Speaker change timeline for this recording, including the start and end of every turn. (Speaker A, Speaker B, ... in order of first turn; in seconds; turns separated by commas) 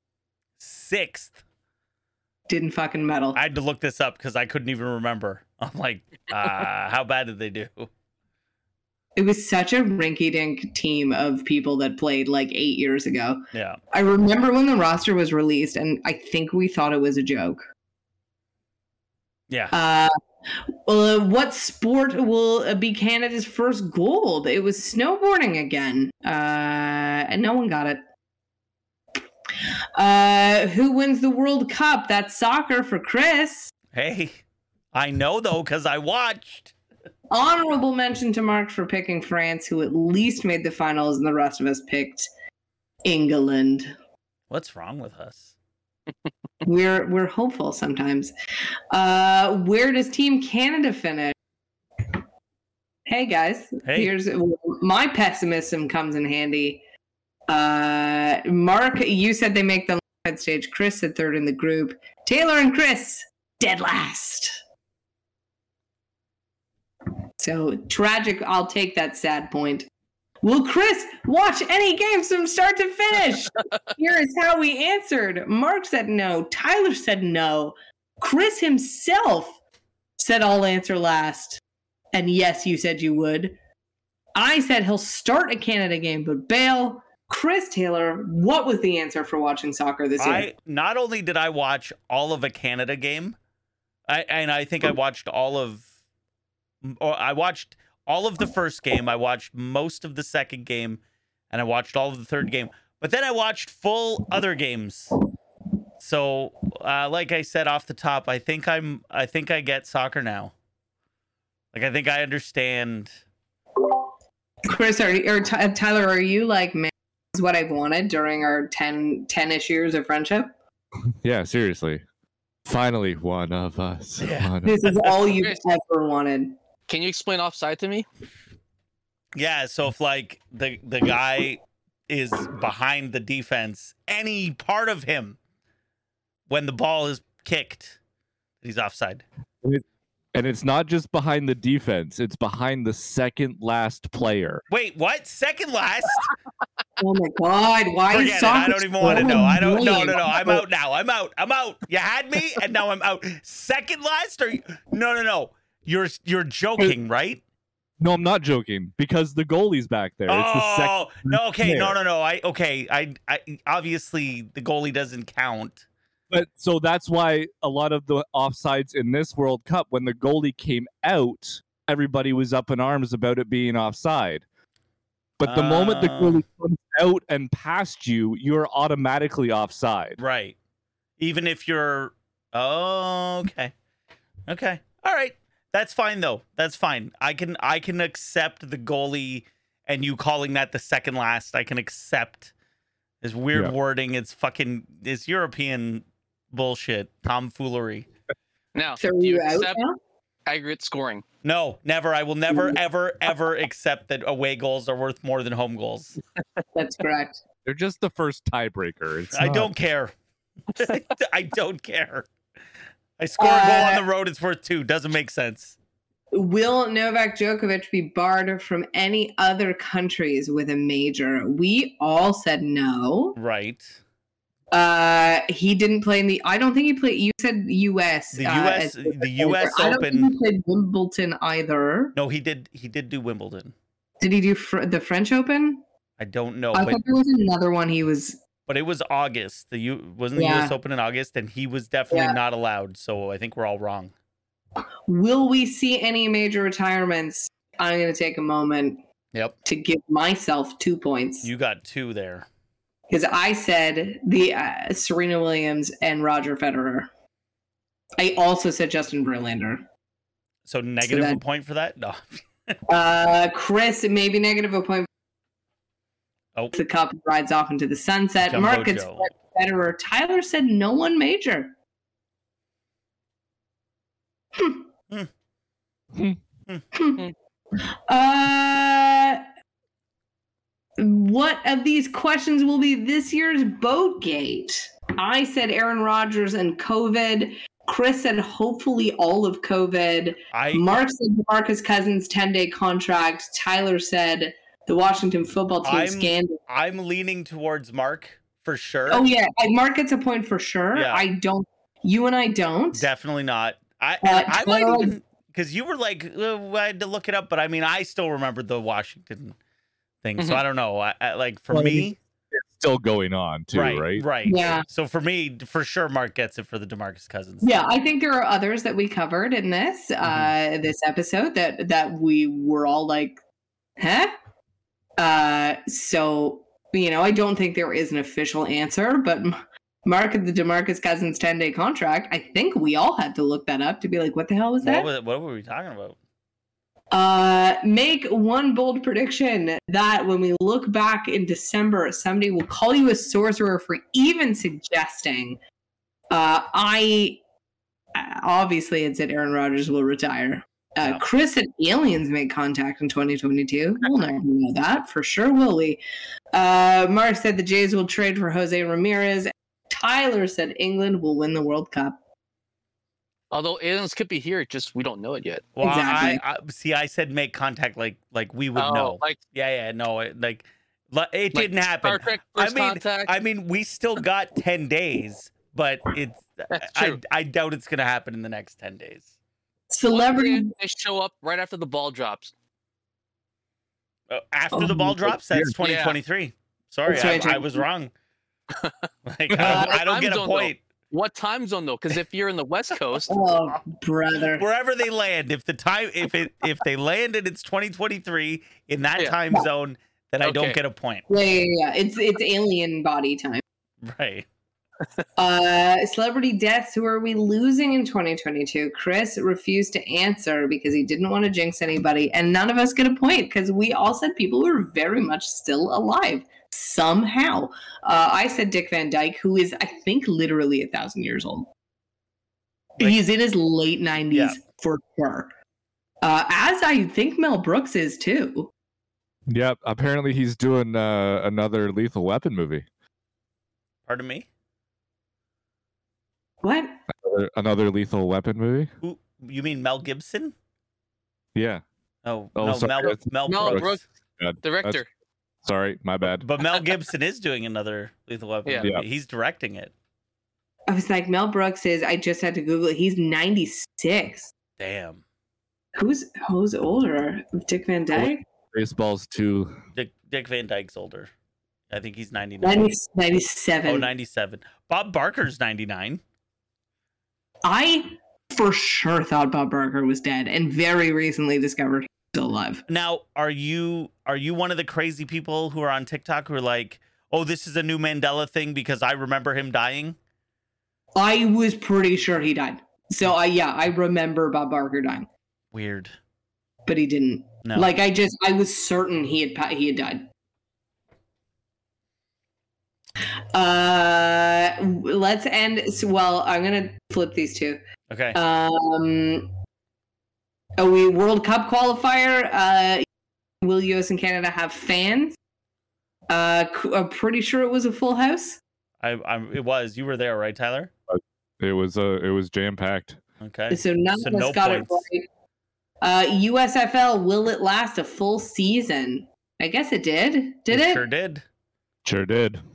Speaker A: 0.6-1.4, Speaker B: 2.5-3.4, Speaker A: 3.4-7.9, Speaker B: 9.2-17.6, Speaker A: 13.5-13.8, Speaker B: 19.7-28.0, Speaker B: 30.0-33.7, Speaker A: 33.9-34.4, Speaker A: 34.9-36.7, Speaker B: 37.3-42.3, Speaker B: 43.0-43.9, Speaker A: 44.5-45.5, Speaker B: 46.6-48.3, Speaker B: 48.9-51.4, Speaker B: 53.1-56.8, Speaker A: 53.9-54.1, Speaker B: 57.5-64.6, Speaker B: 67.4-69.9, Speaker B: 70.4-79.6, Speaker B: 80.2-81.6, Speaker B: 82.1-83.5, Speaker B: 84.3-90.5, Speaker A: 90.2-93.4, Speaker A: 94.1-95.9, Speaker A: 96.8-105.1, Speaker A: 106.0-110.5, Speaker A: 111.7-113.1, Speaker B: 114.7-120.5, Speaker C: 121.2-122.0, Speaker C: 122.7-124.8, Speaker A: 124.2-124.6, Speaker B: 124.6-126.6, Speaker D: 125.2-125.6, Speaker D: 126.9-128.1, Speaker A: 129.4-135.4, Speaker A: 136.5-138.0, Speaker A: 138.6-139.2, Speaker C: 139.6-144.6, Speaker A: 144.7-146.3, Speaker B: 147.0-150.6, Speaker A: 148.1-157.4, Speaker C: 149.0-150.6, Speaker C: 158.0-162.0, Speaker A: 160.3-165.8, Speaker C: 166.3-174.4, Speaker C: 175.4-180.2, Speaker A: 175.4-176.4, Speaker A: 180.2-180.6, Speaker A: 181.2-183.7, Speaker A: 184.5-192.5, Speaker A: 193.2-198.1, Speaker D: 198.8-199.8, Speaker B: 199.0-200.0, Speaker D: 200.5-201.2, Speaker A: 201.4-206.2, Speaker B: 202.5-202.8, Speaker B: 206.8-207.4, Speaker C: 207.7-209.7, Speaker A: 209.3-210.1, Speaker A: 210.7-212.3, Speaker A: 213.2-215.8, Speaker B: 213.4-214.0, Speaker B: 216.3-223.4, Speaker A: 223.4-224.0, Speaker B: 224.7-232.2, Speaker A: 228.3-230.3, Speaker A: 232.2-233.7, Speaker B: 234.2-235.8, Speaker A: 236.2-237.0, Speaker B: 236.7-238.4, Speaker A: 238.7-244.1, Speaker B: 240.4-240.8, Speaker B: 242.1-242.4, Speaker B: 245.1-249.0, Speaker B: 249.7-251.5, Speaker A: 251.4-252.5, Speaker B: 253.1-257.1, Speaker B: 258.2-259.8, Speaker A: 260.7-262.8, Speaker B: 261.0-261.4, Speaker B: 262.9-265.1, Speaker B: 266.8-271.7, Speaker A: 268.5-269.3, Speaker B: 274.6-274.9, Speaker B: 276.9-277.2, Speaker B: 278.1-279.4, Speaker B: 281.0-296.6, Speaker A: 290.5-290.9, Speaker A: 295.9-299.3, Speaker B: 299.1-303.1, Speaker A: 300.9-301.3, Speaker A: 302.9-309.6, Speaker B: 304.2-305.2, Speaker A: 310.2-312.2, Speaker D: 310.4-310.6, Speaker C: 311.7-314.3, Speaker A: 313.7-317.9, Speaker B: 314.4-314.9, Speaker B: 317.6-323.4, Speaker B: 324.0-324.3, Speaker B: 325.2-335.1, Speaker A: 334.8-336.2, Speaker B: 337.1-345.6, Speaker B: 346.3-347.4, Speaker B: 348.1-356.0, Speaker B: 356.5-362.2, Speaker D: 363.5-365.7, Speaker A: 365.8-379.3, Speaker B: 365.8-366.4, Speaker D: 368.8-369.4, Speaker D: 371.5-373.3, Speaker D: 376.7-377.2, Speaker B: 379.9-380.7, Speaker D: 380.1-382.5, Speaker A: 384.3-388.1, Speaker B: 384.8-385.0, Speaker C: 384.8-385.8, Speaker D: 385.8-386.2, Speaker B: 387.1-387.9, Speaker D: 388.8-393.3, Speaker A: 389.3-390.8, Speaker B: 389.6-390.0, Speaker B: 393.3-394.6, Speaker A: 394.5-401.2, Speaker D: 400.4-400.8, Speaker B: 401.3-403.6, Speaker A: 404.0-404.5, Speaker B: 405.4-421.7, Speaker B: 423.0-425.5, Speaker B: 426.2-428.7, Speaker C: 429.5-432.9, Speaker A: 434.1-434.5, Speaker B: 436.6-437.0, Speaker C: 437.1-438.9, Speaker A: 439.0-440.6, Speaker C: 441.6-441.8, Speaker A: 442.2-444.0, Speaker C: 442.6-445.0, Speaker D: 443.5-444.0, Speaker D: 444.6-445.1, Speaker C: 445.6-446.5, Speaker A: 446.4-449.9, Speaker B: 450.9-454.5, Speaker A: 454.8-455.2, Speaker B: 456.0-458.4, Speaker C: 458.1-459.8, Speaker A: 459.9-461.3, Speaker A: 461.9-462.9, Speaker B: 462.6-464.1, Speaker A: 463.9-466.2, Speaker B: 467.6-472.8, Speaker A: 472.9-480.2, Speaker B: 481.2-485.3, Speaker A: 485.7-486.1, Speaker B: 486.9-490.3, Speaker B: 493.5-497.8, Speaker A: 498.1-498.4, Speaker B: 498.4-499.5, Speaker B: 500.8-503.1, Speaker B: 503.6-505.4, Speaker B: 506.3-508.6, Speaker A: 509.0-510.9, Speaker C: 511.1-513.2, Speaker A: 513.4-515.0, Speaker B: 513.7-515.3, Speaker B: 516.0-521.0, Speaker A: 520.7-521.4, Speaker C: 522.0-522.6